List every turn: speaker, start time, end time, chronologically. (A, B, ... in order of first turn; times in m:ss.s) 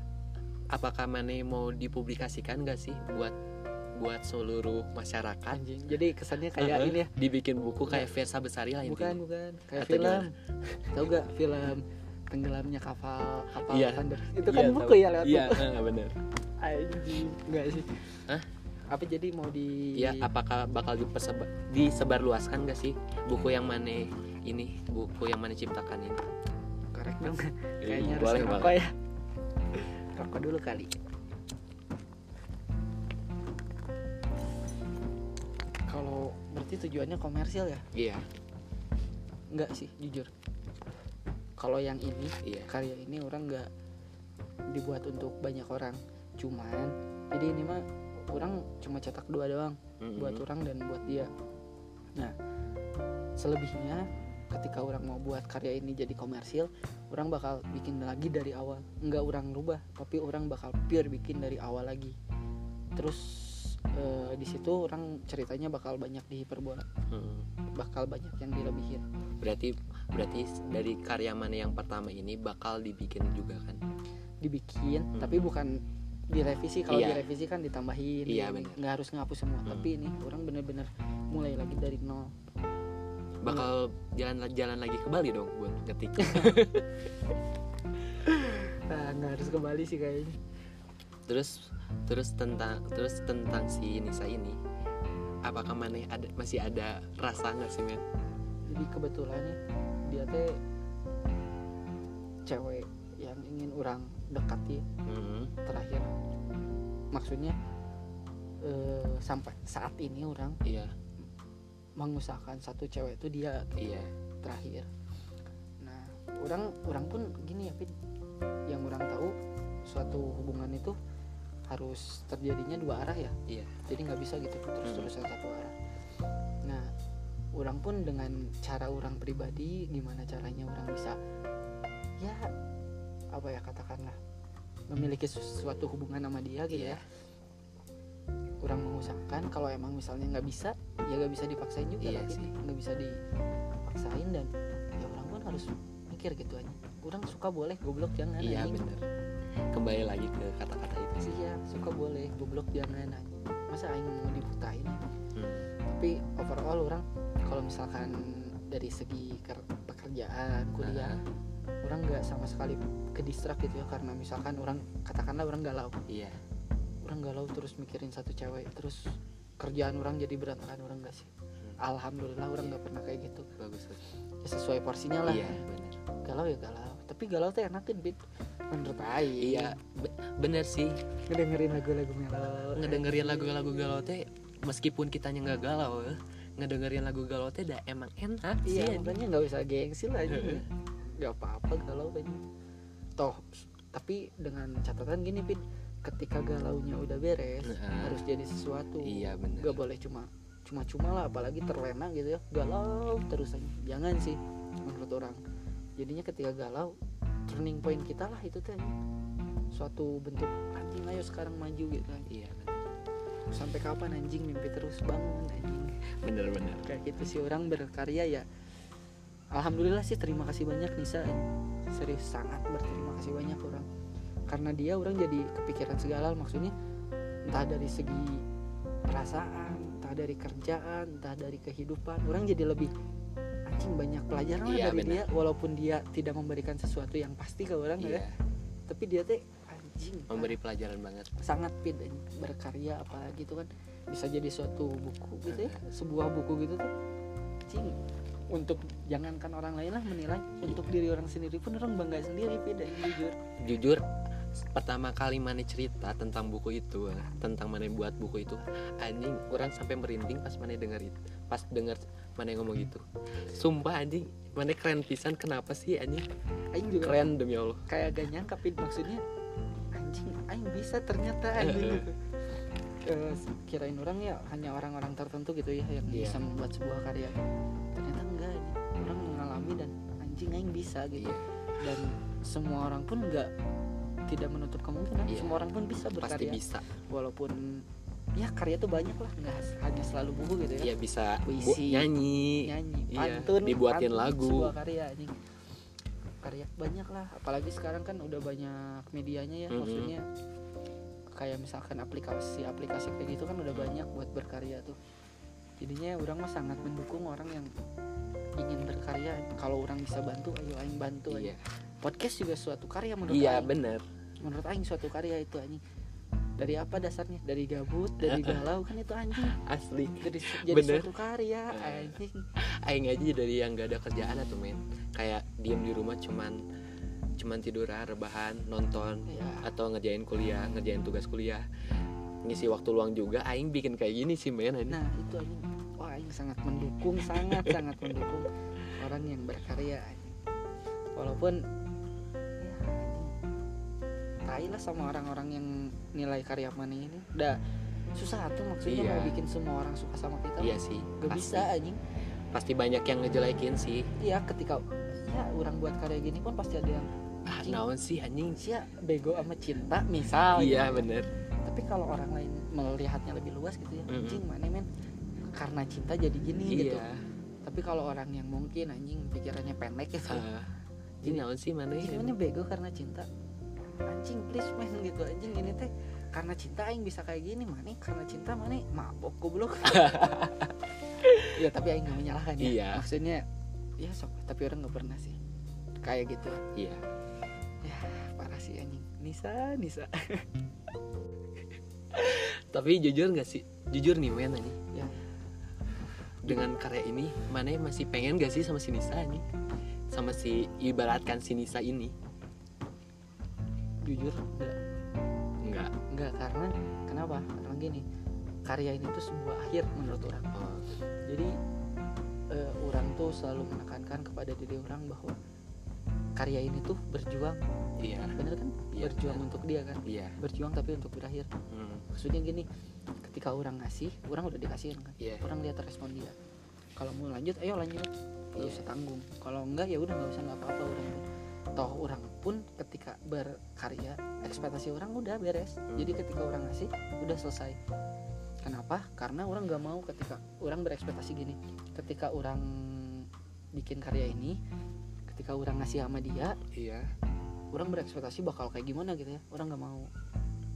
0:00.7-0:03.3 A
0:04.0-0:05.6 A
0:05.5-0:07.1 B
0:06.6-0:09.2 A
0:08.8-0:10.3 B
0:09.8-0:11.1 A
0:10.9-0:15.6 B
0:13.7-0:16.2 A
0:16.6-0:18.2 B
0:18.9-0:20.2 B
0:20.0-0:26.2 A
0:26.9-0:28.9 B
0:27.8-0:28.8 A
0:30.0-0:30.9 B
0:35.9-0:37.8 B
0:37.9-0:38.2 A
0:39.5-0:40.3 B
0:41.6-0:43.7 B
0:42.4-0:42.7 A
0:44.7-0:51.3 B
0:50.0-0:50.4 A
0:53.4-1:02.1 B
1:03.0-1:06.9 B
1:07.1-1:07.5 A
1:07.8-1:09.0 B
1:09.4-1:13.8 A
1:14.4-1:15.8 B
1:15.1-1:15.5 A
1:16.3-1:22.3 B
1:16.9-1:17.3 A
1:18.3-1:18.8 A
1:19.6-1:19.9 A
1:23.4-1:27.0 A
1:26.2-1:26.5 B
1:28.2-1:30.4 B
1:31.3-1:34.6 A
1:35.4-1:38.0 A
1:38.7-1:40.6 B
1:42.4-1:44.8 B
1:45.0-1:45.5 A
1:45.6-1:46.1 B
1:47.1-1:47.6 B
1:48.6-1:50.6 B
1:50.6-1:50.9 A
1:52.0-1:54.9 B
1:53.8-1:54.1 A
1:55.8-1:57.9 B
1:58.7-1:59.3 B
1:59.8-2:00.9 B
2:01.7-2:05.7 B
2:03.5-2:03.7 A
2:04.8-2:05.1 A
2:06.6-2:06.9 B
2:07.6-2:11.2 B
2:12.2-2:12.5 B
2:13.3-2:14.2 B
2:14.9-2:17.0 B
2:16.7-2:17.0 A
2:18.6-2:23.2 B
2:22.0-2:22.5 A
2:23.8-2:28.8 B
2:28.4-2:29.0 A
2:29.7-2:31.3 A
2:31.2-2:35.1 B
2:35.4-2:35.7 A
2:35.9-2:38.2 B
2:38.7-2:41.2 B
2:40.8-2:41.2 A
2:41.8-2:46.0 B
2:46.1-2:46.4 A
2:47.0-2:53.5 B
2:53.6-2:54.0 A
2:54.4-2:55.6 B
2:55.2-2:56.0 A
2:56.2-2:59.8 B
2:59.4-3:01.0 A
3:01.3-3:03.9 B
3:02.7-3:09.2 A
3:08.6-3:10.7 B
3:10.3-3:10.6 A
3:11.2-3:12.4 B
3:13.2-3:25.4 B
3:17.6-3:18.2 A
3:19.0-3:19.8 A
3:26.0-3:26.9 B
3:27.5-3:28.9 B
3:29.7-3:32.2 B
3:32.3-3:32.9 A
3:33.5-3:35.9 B
3:36.2-3:36.9 A
3:36.8-3:38.4 B
3:39.5-3:43.9 B
3:44.5-3:46.7 B
3:47.5-3:48.4 B
3:49.1-3:52.9 B
3:53.7-3:58.2 B
3:54.6-3:55.2 A
3:58.0-3:58.4 A
3:58.9-4:00.6 B
4:00.3-4:01.3 A
4:01.4-4:06.9 B
4:05.5-4:05.8 A
4:07.7-4:08.0 B
4:08.5-4:13.4 B
4:13.6-4:14.0 A
4:14.6-4:26.2 A
4:26.7-4:27.2 B
4:27.0-4:27.8 A
4:27.9-4:29.2 B
4:29.9-4:32.1 B
4:31.6-4:32.0 A
4:33.0-4:37.4 B
4:36.1-4:36.4 A
4:37.9-4:43.5 B
4:41.2-4:41.4 A
4:44.3-4:47.8 B
4:45.3-4:45.6 A
4:46.2-4:46.8 A
4:48.4-4:50.9 B
4:50.8-4:54.7 A
4:51.4-4:52.1 B
4:52.6-4:55.3 B
4:56.4-5:00.2 B
4:59.7-5:00.1 A
5:01.4-5:05.0 B
5:03.7-5:04.0 A
5:05.8-5:07.7 B
5:08.6-5:13.7 B
5:11.3-5:11.6 A
5:13.3-5:14.0 A
5:14.4-5:15.8 B
5:16.6-5:19.6 B
5:18.2-5:18.7 A
5:19.5-5:21.1 A
5:20.2-5:22.4 B
5:21.7-5:26.6 A
5:27.4-5:31.6 A
5:29.3-5:29.7 B
5:32.4-5:35.0 A
5:34.9-5:40.3 B
5:41.2-5:41.6 B
5:42.6-5:43.3 B
5:44.5-5:47.6 B
5:48.1-5:52.0 B
5:48.8-5:49.4 A
5:50.6-5:51.7 A
5:52.5-5:54.1 A
5:54.2-5:57.8 B
5:57.5-5:58.6 A
5:58.6-6:01.1 B
6:00.5-6:01.3 A
6:01.6-6:04.9 B
6:04.1-6:04.4 A
6:05.6-6:07.0 B
6:06.7-6:07.2 A
6:07.6-6:10.4 B
6:10.3-6:10.7 A
6:11.2-6:12.3 A
6:11.2-6:13.3 B
6:14.1-6:20.4 B
6:19.8-6:21.6 A
6:21.5-6:23.4 B
6:22.6-6:23.0 A
6:24.0-6:25.4 B
6:26.0-6:26.6 B
6:26.7-6:27.0 A
6:27.8-6:30.4 B
6:32.1-6:34.8 A
6:34.9-6:35.2 B
6:36.4-6:39.4 A
6:40.1-6:42.1 A
6:44.0-6:44.8 B
6:45.6-6:45.9 A
6:46.1-6:48.0 B
6:48.7-6:50.5 B
6:50.5-6:50.9 A
6:51.3-6:51.5 B
6:52.5-6:55.3 B
6:56.4-6:57.6 B
6:58.0-6:58.4 A
6:58.3-7:01.5 B
6:58.9-6:59.4 A
7:00.0-7:00.4 A
7:01.7-7:02.0 A
7:02.1-7:02.7 B
7:03.2-7:06.4 B
7:07.0-7:11.2 B
7:08.6-7:08.8 A
7:11.8-7:17.8 B
7:15.9-7:16.2 A
7:18.6-7:24.6 B
7:25.3-7:26.6 B
7:26.7-7:27.1 A
7:27.7-7:30.1 B